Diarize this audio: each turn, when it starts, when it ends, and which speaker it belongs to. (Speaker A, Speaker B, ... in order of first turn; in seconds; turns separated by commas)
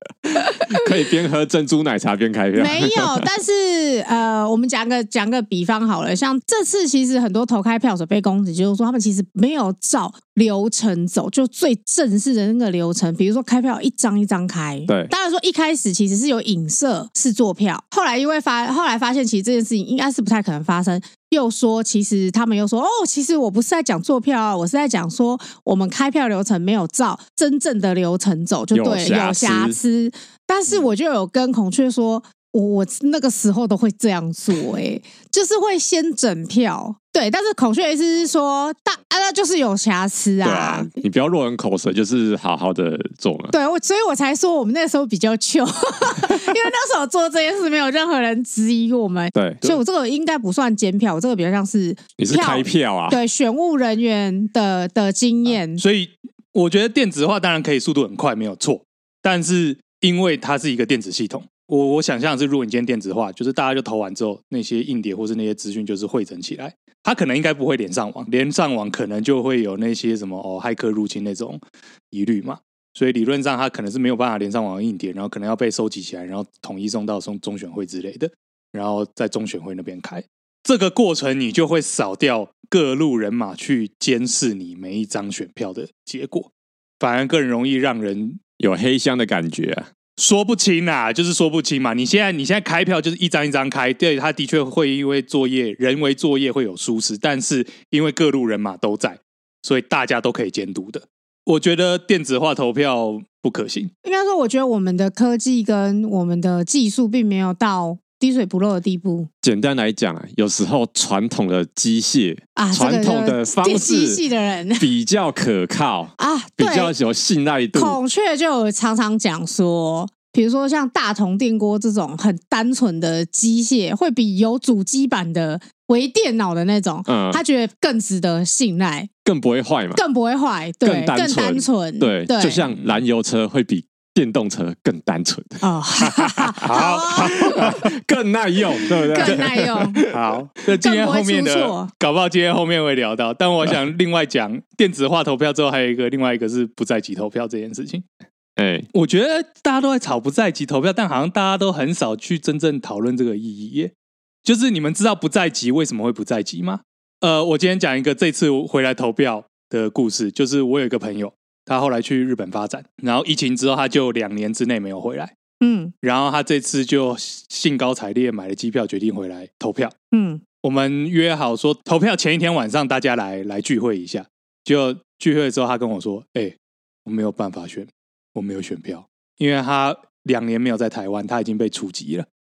Speaker A: 0.3-3.2, Speaker B: 2.5-40.9, Speaker A: 28.7-29.8, Speaker A: 40.4-43.5, Speaker B: 43.5-55.8, Speaker A: 49.4-49.7, Speaker A: 52.2-53.2, Speaker C: 55.6-88.4, Speaker A: 88.6-89.9, Speaker C: 90.2-103.9, Speaker B: 104.0-109.3, Speaker A: 109.4-114.2, Speaker B: 112.6-114.9, Speaker A: 114.8-118.0, Speaker B: 116.2-116.9, Speaker B: 117.8-129.1, Speaker A: 127.1-127.4, Speaker A: 129.2-130.0, Speaker B: 129.9-132.6, Speaker A: 130.8-140.1, Speaker B: 135.6-137.8, Speaker C: 136.6-137.9, Speaker B: 139.1-140.1, Speaker C: 140.1-148.1, Speaker B: 140.8-141.9, Speaker A: 148.6-148.9, Speaker C: 148.9-153.9, Speaker C: 154.4-165.3, Speaker B: 165.6-165.9, Speaker C: 166.0-169.9, Speaker B: 170.1-170.4, Speaker C: 170.6-182.3